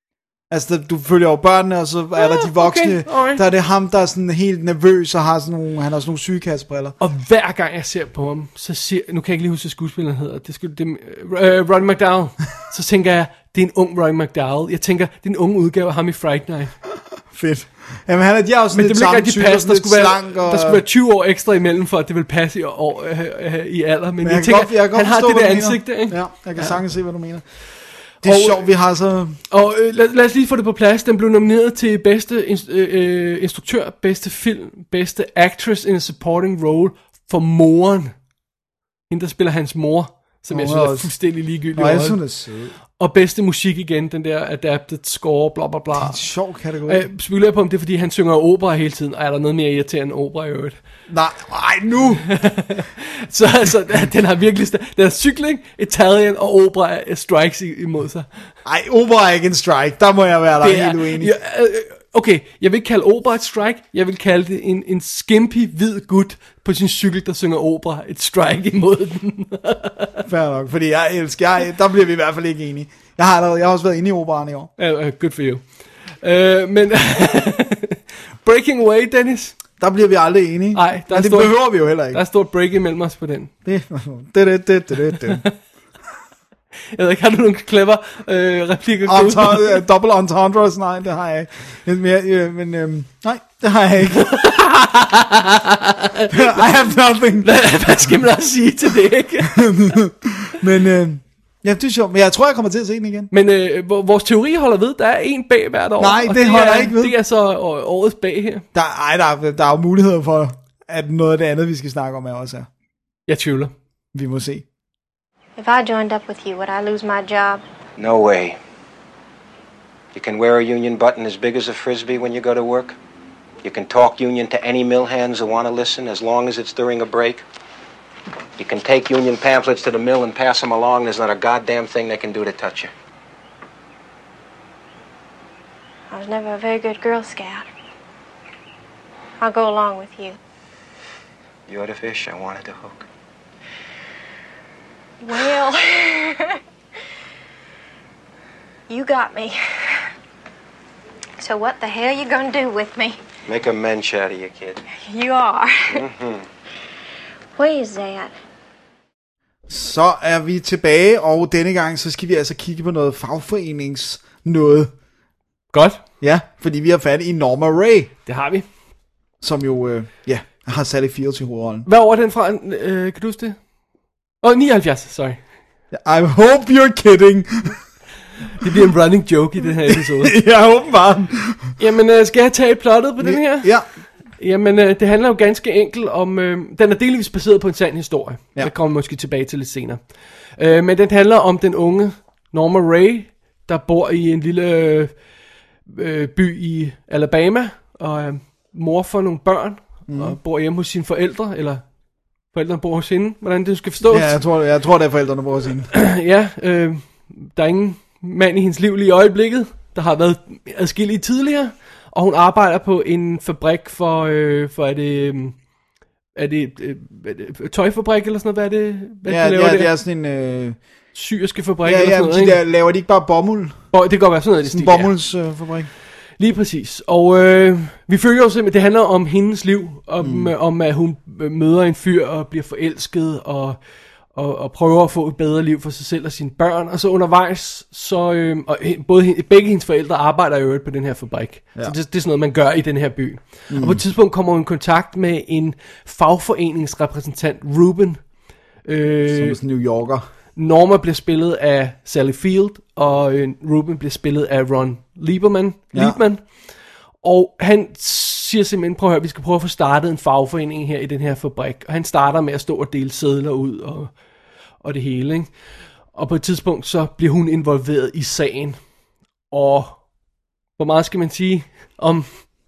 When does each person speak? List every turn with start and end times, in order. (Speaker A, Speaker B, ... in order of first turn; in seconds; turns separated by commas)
Speaker A: 0.5-7.0, Speaker B: 2.2-3.4, Speaker B: 7.0-16.7, Speaker A: 17.3-20.8, Speaker B: 18.7-26.8, Speaker A: 24.2-27.4, Speaker B: 28.2-28.6, Speaker A: 28.2-29.4, Speaker B: 29.5-38.1, Speaker B: 39.1-42.2, Speaker A: 40.5-41.1, Speaker A: 41.8-42.8, Speaker B: 43.0-46.2, Speaker A: 45.9-47.1, Speaker B: 46.9-50.8, Speaker A: 51.1-52.3, Speaker B: 52.3-58.3, Speaker A: 58.6-61.3, Speaker B: 60.6-70.2, Speaker A: 70.3-74.7, Speaker B: 74.8-75.6, Speaker B: 76.2-79.6, Speaker A: 79.8-82.2, Speaker B: 80.7-83.5, Speaker A: 83.7-85.4, Speaker B: 87.0-89.8, Speaker A: 89.1-94.4, Speaker B: 94.2-96.7, Speaker A: 96.3-97.5, Speaker B: 97.4-99.8, Speaker A: 99.5-103.3, Speaker B: 103.3-108.7, Speaker A: 106.0-107.2, Speaker A: 108.7-112.7, Speaker B: 113.3-113.7, Speaker A: 114.1-114.6, Speaker C: 115.6-117.6, Speaker D: 118.0-118.6, Speaker D: 120.1-123.0, Speaker D: 123.6-127.4, Speaker D: 128.6-132.9, Speaker C: 136.1-137.7, Speaker C: 139.4-140.4, Speaker D: 141.7-143.1, Speaker C: 145.2-146.6, Speaker C: 148.9-149.6, Speaker C: 151.4-153.2, Speaker D: 153.5-154.8, Speaker C: 154.9-156.0, Speaker D: 155.9-156.4, Speaker C: 157.6-158.3, Speaker A: 159.7-164.9, Speaker B: 165.7-166.0, Speaker A: 166.2-168.1, Speaker B: 168.3-168.7, Speaker A: 169.4-171.9, Speaker B: 171.9-173.6, Speaker B: 174.4-175.4, Speaker A: 175.9-177.8, Speaker B: 178.6-180.3, Speaker A: 179.9-181.7, Speaker B: 181.8-183.8, Speaker A: 183.2-183.9, Speaker B: 184.4-190.0, Speaker B: 190.6-195.1, Speaker B: 195.9-201.8, Speaker A: 200.1-200.4, Speaker B: 202.5-204.4, Speaker A: 204.1-205.9, Speaker B: 205.9-215.6, Speaker B: 216.4-219.9, Speaker A: 219.3-220.8, Speaker B: 221.1-222.6, Speaker A: 221.8-223.9, Speaker B: 223.9-225.1, Speaker A: 224.7-225.9, Speaker B: 226.4-233.8, Speaker A: 230.2-230.5, Speaker B: 234.3-248.2, Speaker A: 243.7-244.0, Speaker B: 248.9-249.6, Speaker A: 249.3-250.2, Speaker B: 250.6-256.4, Speaker B: 257.2-264.1, Speaker B: 264.8-265.5, Speaker B: 266.1-268.8, Speaker B: 269.5-270.0, Speaker B: 270.8-272.3